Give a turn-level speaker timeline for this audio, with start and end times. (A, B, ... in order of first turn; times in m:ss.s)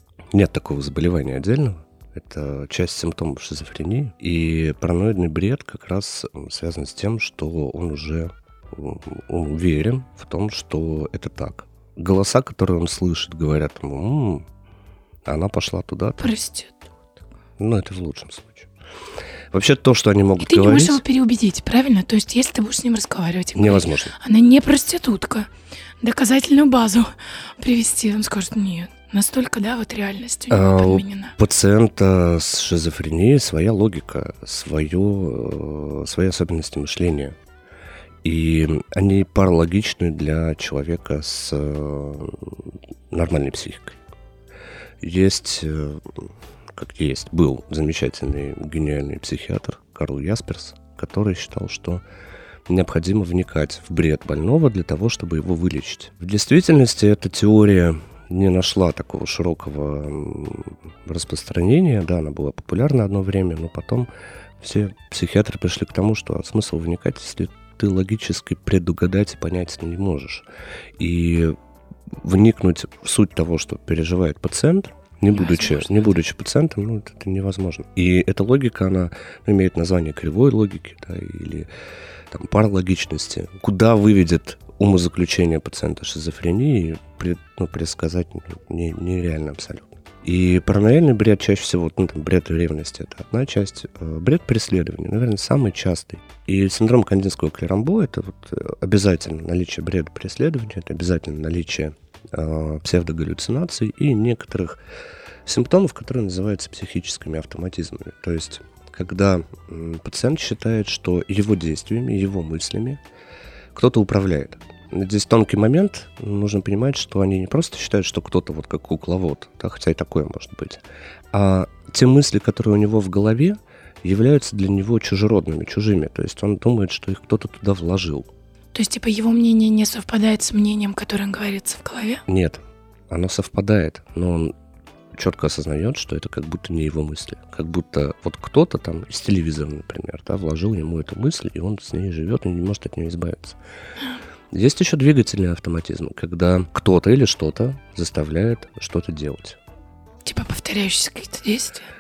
0:00.3-0:14.4 A
0:15.3-0:16.3 A
0:16.2-0:16.8 B
0:17.6-0:18.7 A
0:19.5-0:21.0 A
0:20.4-0:25.5 B
0:23.6-0:24.1 A
0:26.0-0:31.4 B
0:30.5-0:37.4 A
0:38.2-0:42.6 A
0:43.1-0:44.0 A
0:45.0-0:52.0 A
0:52.7-1:04.1 A
1:04.6-1:10.5 A
1:11.0-1:11.5 A
1:12.2-1:21.7 A
1:15.3-1:16.1 B
1:22.3-1:44.8 A
1:45.5-1:53.0 A
1:53.7-2:08.3 A
2:08.7-2:12.2 B
2:12.3-2:14.5 A
2:15.2-2:23.6 A
2:24.5-2:29.6 A
2:30.2-2:31.9 B